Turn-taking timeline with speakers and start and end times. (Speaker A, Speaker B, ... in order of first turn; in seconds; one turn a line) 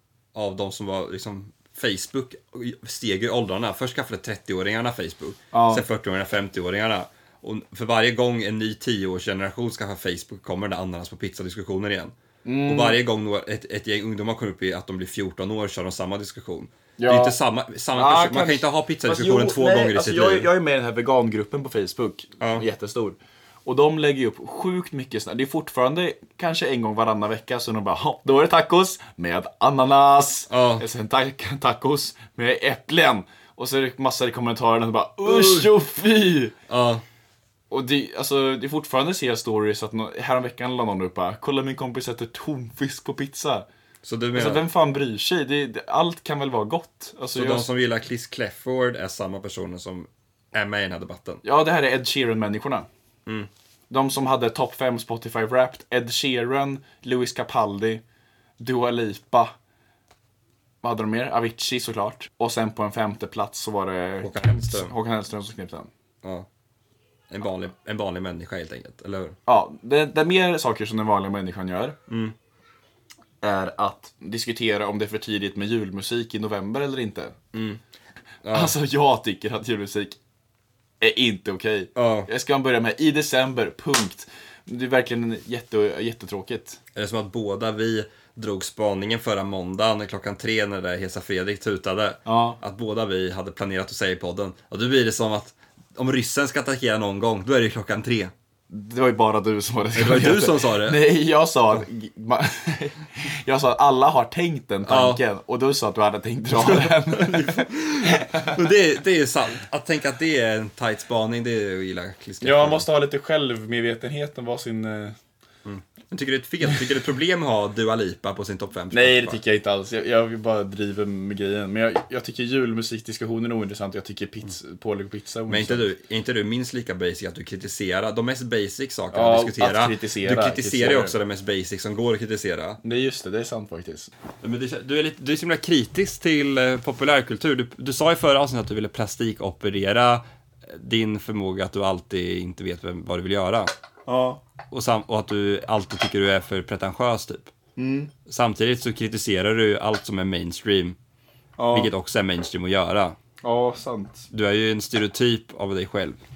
Speaker A: 0.3-20.5
Speaker B: 5.5-5.8
Speaker B: 12.4-13.0
Speaker B: 17.0-17.4
Speaker B: 17.9-36.5
Speaker A: 30.5-30.9
Speaker A: 35.3-35.7
Speaker A: 36.7-37.0
Speaker B: 37.7-43.6
Speaker A: 44.0-44.7
Speaker B: 44.3-47.7
Speaker A: 47.3-51.4
Speaker B: 51.4-52.9
Speaker B: 53.9-58.0
Speaker B: 58.6-59.5
Speaker B: 60.8-65.9
Speaker A: 64.2-64.9
Speaker A: 67.3-69.4
Speaker B: 69.5-72.0
Speaker A: 72.1-72.3
Speaker B: 73.4-77.4
Speaker A: 77.5-77.8
Speaker A: 78.4-78.7
Speaker B: 78.5-80.2
Speaker B: 81.0-86.8
Speaker A: 82.0-82.3
Speaker A: 87.0-98.3
Speaker B: 92.2-92.6
Speaker B: 98.7-108.5
Speaker A: 100.0-101.0
Speaker A: 104.8-105.2
Speaker A: 106.6-112.9
Speaker B: 112.4-115.2
Speaker A: 115.7-119.4
Speaker B: 118.9-125.9
Speaker A: 125.5-132.8
Speaker B: 129.1-131.2
Speaker B: 132.8-134.1
Speaker A: 134.4-143.7
Speaker B: 144.1-144.4
Speaker A: 144.7-147.5
Speaker B: 147.8-148.1
Speaker A: 148.3-151.0
Speaker B: 151.6-151.9
Speaker A: 151.7-153.2
Speaker B: 153.4-154.3
Speaker A: 154.3-156.2